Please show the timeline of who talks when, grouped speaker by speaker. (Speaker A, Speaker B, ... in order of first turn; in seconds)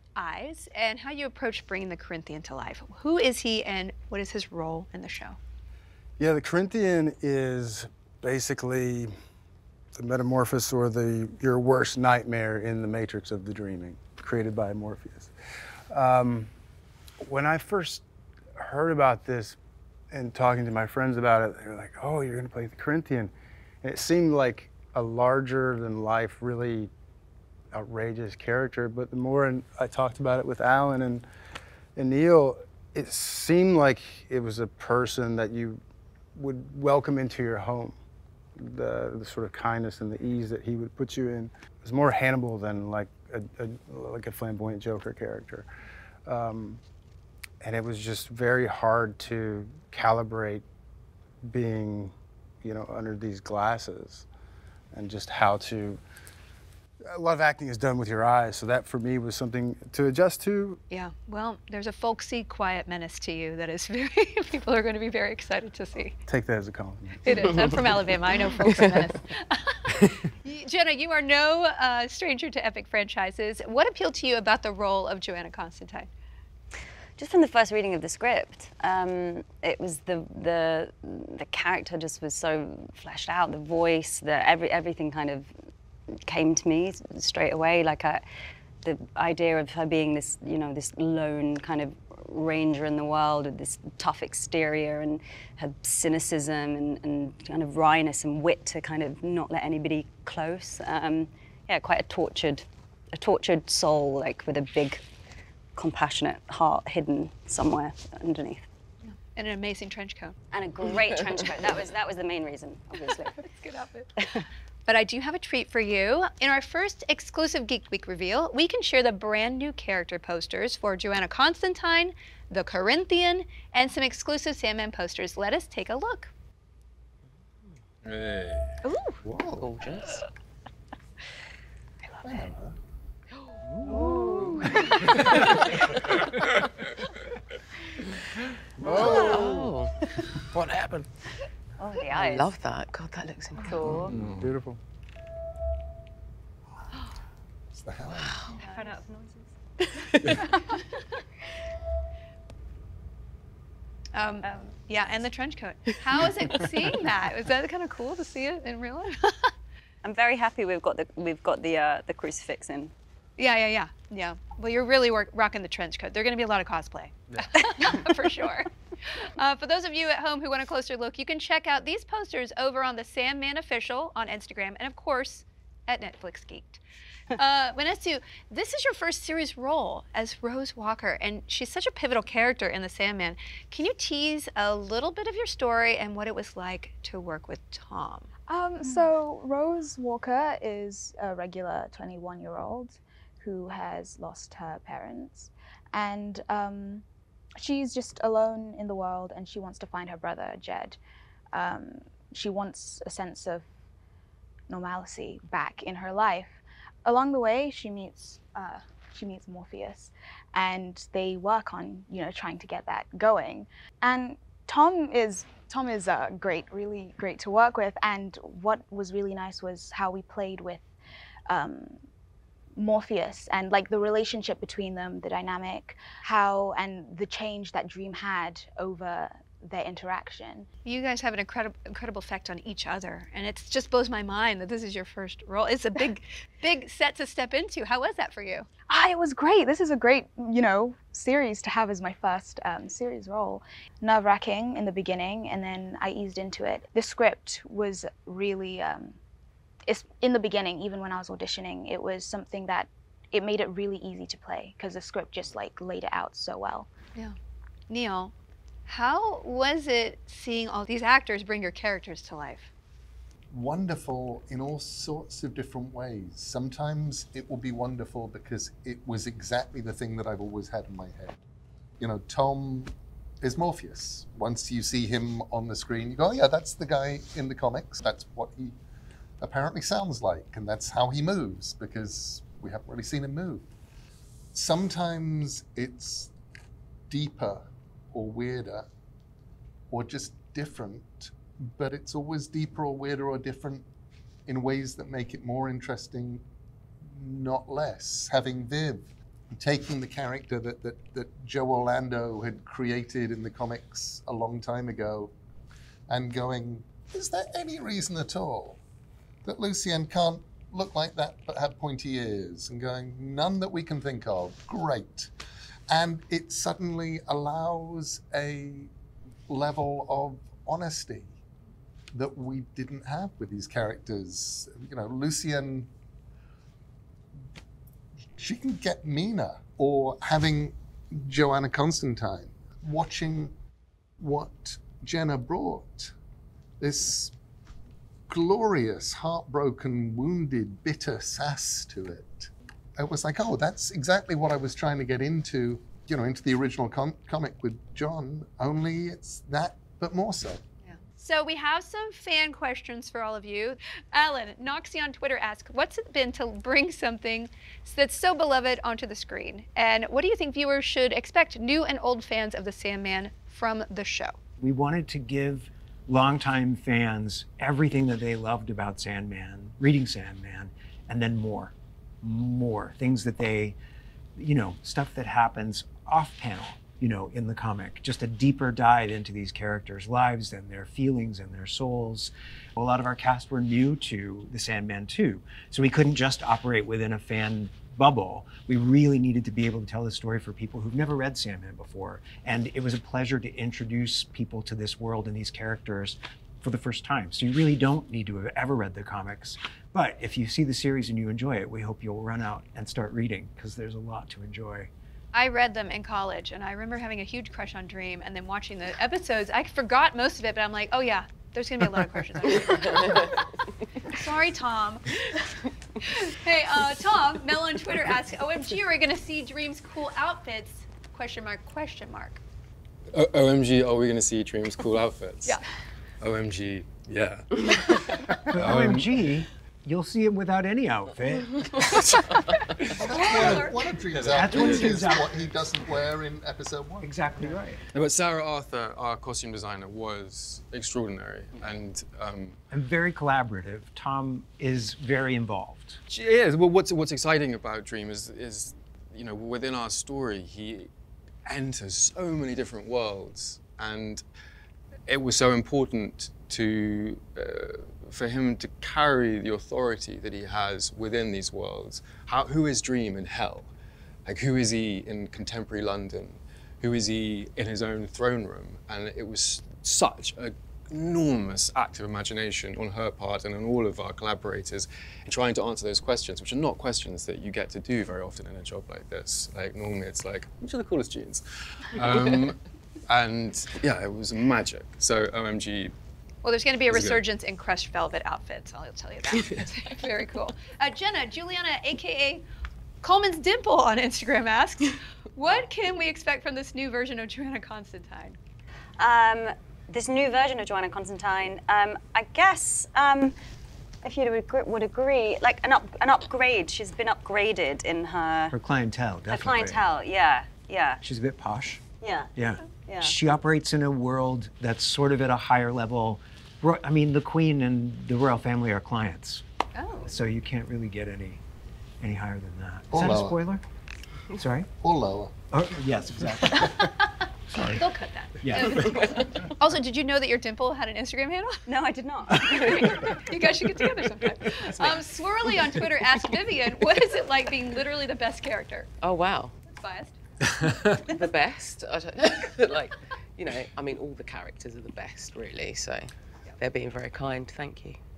Speaker A: 0.1-5.4, 60.9-66.1, 67.2-76.1, 109.1-110.4, 113.4-114.1, 114.9-126.3, 154.1-159.5, 163.4-176.8, 177.3-188.3, 230.8-238.7, 257.9-258.3, 258.9-262.7, 350.9-364.4, 405.3-413.4, 414.0-415.2, 416.0-422.4, 433.1-433.7, 486.4-492.4, 493.0-498.4, 519.8-520.1, 526.6-527.0, 527.7-531.6, 532.5-538.9, 539.7-540.2
Speaker B: 6.2-9.1, 9.9-15.3, 15.9-16.5, 17.2-18.0, 18.6-19.6, 20.1-23.3, 23.8-26.9, 27.7-31.2, 31.9-35.8, 36.4-38.0, 38.6-45.7, 46.2-46.8, 47.6-50.6, 51.4-54.3, 54.9-56.0, 57.0-60.8, 66.3-68.1, 138.8-139.7, 140.5-141.1, 144.1-144.8
Speaker C: 77.2-85.5, 86.2-88.2, 88.8-105.0, 105.8-108.7, 110.5-113.4, 133.9-135.1, 139.0-139.5, 141.8-142.5, 143.6-144.1, 148.6-149.5, 150.3-150.8, 160.0-162.9, 499.0-503.4, 504.0-508.5, 509.3-511.0, 512.0-513.1, 531.7-533.0
Speaker D: 128.0-128.8, 144.0-144.4, 423.1-425.6, 426.2-429.3, 431.9-432.2, 433.4-435.2, 437.9-442.6, 446.1-450.9, 451.5-454.2, 455.1-463.7, 464.2-485.9, 486.9-487.2
Speaker E: 129.2-129.7, 132.2-132.8, 147.7-148.6, 263.5-271.4, 272.0-278.8, 279.4-283.7, 284.5-286.3, 287.1-288.9, 289.9-293.9, 294.5-296.4, 297.0-305.3, 306.1-308.8, 309.4-315.3, 315.9-318.9, 319.5-321.4, 322.1-325.9, 328.4-333.5, 334.2-336.1, 336.8-337.3, 338.3-350.6, 433.0-437.1, 522.9-523.4, 524.8-525.4
Speaker F: 129.5-130.2, 133.8-134.8, 135.4-136.1, 138.9-140.1, 142.0-144.1, 150.0-150.5, 412.5-413.4, 534.6-535.0, 539.0-539.5, 541.0-548.0
Speaker G: 188.5-197.0, 197.6-201.0, 201.5-203.7, 204.7-220.9, 221.5-222.0, 222.8-230.7, 238.9-249.2, 249.9-256.9
Speaker H: 364.6-373.8, 374.4-404.9, 428.5-432.4, 433.4-433.7, 434.2-435.4, 437.0-437.8, 442.7-446.0, 508.5-509.9, 511.0-511.8, 512.4-519.4, 520.0-521.4, 522.0-523.6, 524.3-524.7, 525.5-526.9, 527.5-527.9, 528.4-529.2, 532.5-532.8